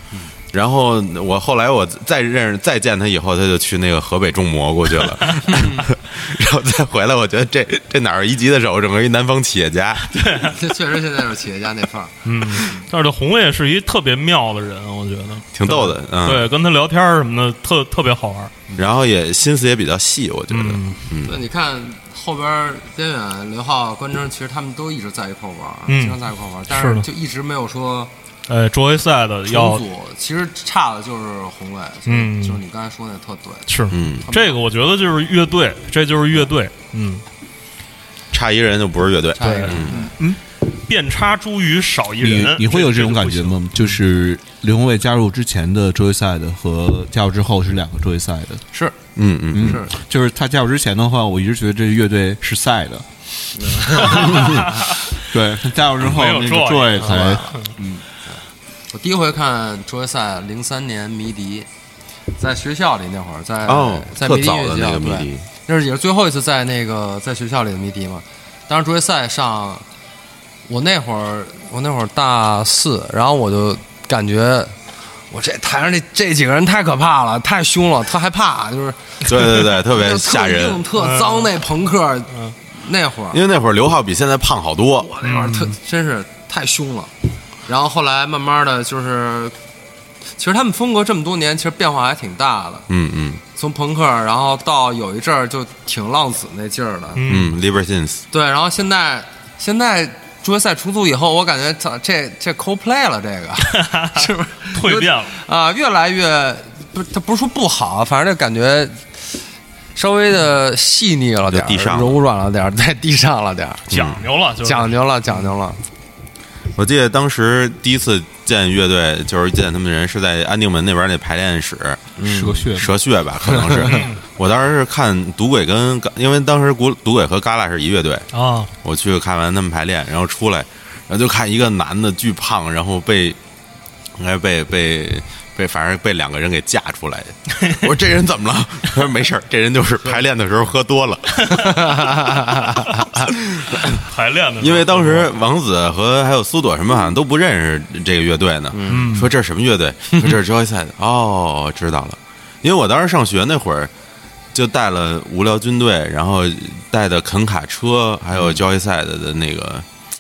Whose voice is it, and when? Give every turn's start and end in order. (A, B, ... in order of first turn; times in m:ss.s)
0:00.5-0:10.1 A
0:10.1-0:10.6 B
0:10.4-0:12.1 C
0:12.2-0:18.5 B
0:15.5-0:16.5 A
0:18.8-0:21.4 A
0:20.5-0:21.0 B
0:21.2-0:28.1 C
0:25.9-0:26.2 B
0:26.7-0:27.0 B
0:28.5-0:29.8 B
0:29.5-0:33.7 C
0:32.0-0:32.6 B
0:33.7-0:37.2 B
0:33.9-0:34.2 A
0:34.2-0:34.6 C
0:38.3-0:40.1 A
0:39.4-0:40.1 C
0:39.4-0:39.8 B
0:40.6-0:43.6 B
0:42.2-0:48.6 D
0:49.2-0:49.8 A
0:49.5-0:53.0 D
0:49.6-0:49.9 C
0:53.5-0:54.6 C
0:54.0-0:54.6 D
0:54.6-0:54.9 B
0:55.2-0:58.0 D
0:56.0-0:57.7 B
0:57.0-0:57.5 C
0:58.9-1:01.7 C
1:02.4-1:09.8 C
1:03.6-1:05.4 A
1:10.7-1:14.8 C
1:15.3-1:23.4 C
1:19.2-1:20.8 A
1:21.0-1:21.5 B
1:23.3-1:25.1 A
1:25.0-1:27.1 C
1:25.2-1:25.7 B
1:27.6-1:29.5 C
1:30.4-1:32.9 C
1:32.9-1:33.4 A
1:33.5-1:37.2 C
1:37.2-1:37.5 B
1:37.3-1:38.2 A
1:38.3-1:49.2 C
1:43.7-1:45.3 B
1:49.9-1:53.8 C
1:51.5-1:52.2 A
1:53.9-1:54.2 A
1:53.9-1:54.9 B
1:54.6-1:55.8 C
1:56.8-2:08.3 A
2:02.2-2:02.6 C
2:02.2-2:02.9 D
2:03.8-2:04.2 B
2:08.3-2:08.7 B
2:08.8-2:13.4 A
2:14.2-2:21.7 A
2:21.4-2:21.7 B
2:21.5-2:23.3 C
2:23.3-2:24.0 A
2:23.9-2:25.3 B
2:24.6-2:33.9 A
2:28.7-2:29.1 C
2:28.9-2:29.3 B
2:34.5-2:39.8 A